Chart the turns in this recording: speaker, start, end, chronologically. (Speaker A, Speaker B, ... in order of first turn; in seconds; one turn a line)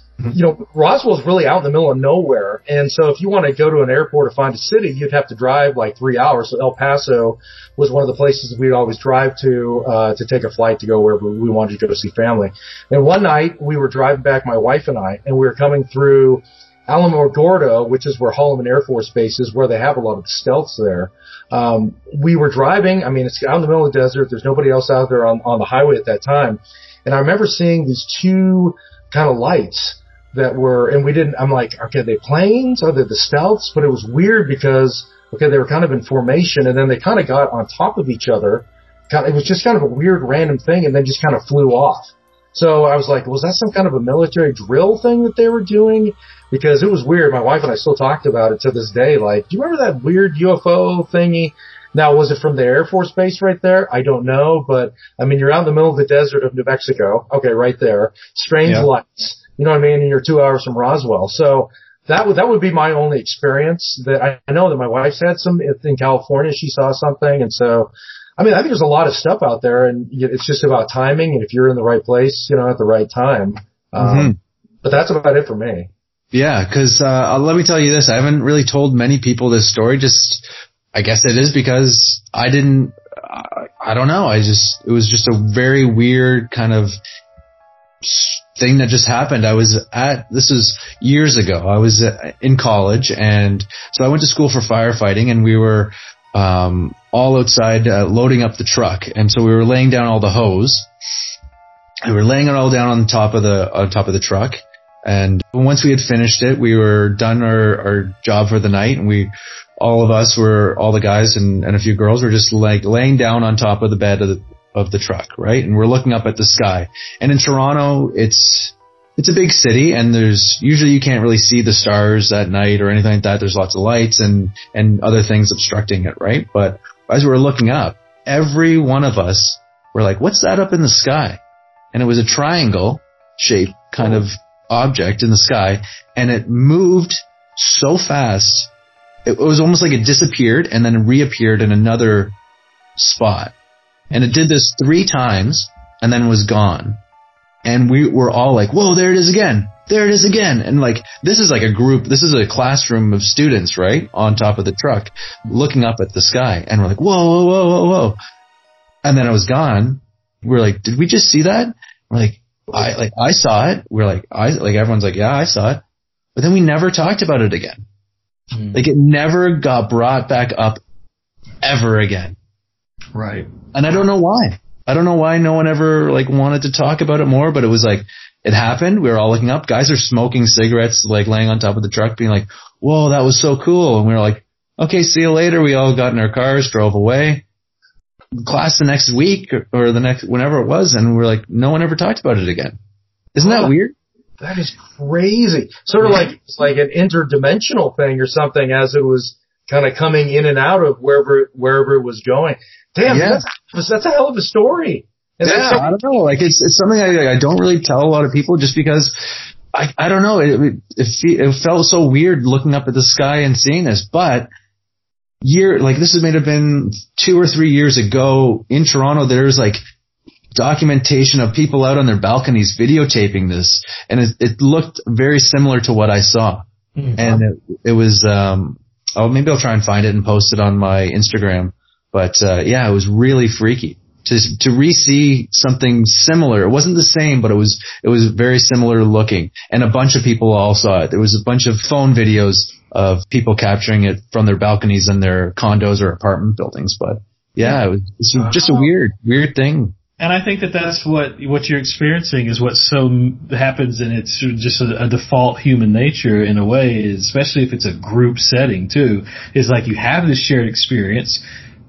Speaker A: 0.3-75.9
Speaker B: 74.0-74.3
Speaker B: 76.3-87.0
Speaker B: 88.0-100.9
Speaker B: 102.0-131.4
Speaker B: 131.9-138.7
Speaker B: 139.2-142.3
Speaker B: 143.0-143.5
Speaker B: 144.1-147.0
Speaker B: 147.6-158.2
Speaker B: 159.0-165.8
Speaker B: 166.3-167.8
Speaker C: 168.5-168.8
Speaker B: 168.7-170.8
Speaker B: 171.6-172.3
Speaker C: 173.1-173.5
Speaker B: 173.7-187.4
Speaker B: 188.4-192.8
Speaker B: 193.3-193.9
Speaker A: 193.4-193.7
Speaker A: 194.4-206.0
Speaker B: 203.1-203.4
Speaker B: 205.4-209.2
Speaker B: 209.7-214.5
Speaker B: 215.4-219.8
Speaker B: 220.6-226.6
Speaker C: 227.0-227.4
Speaker B: 227.2-249.9
Speaker C: 248.5-248.8
Speaker C: 250.2-261.4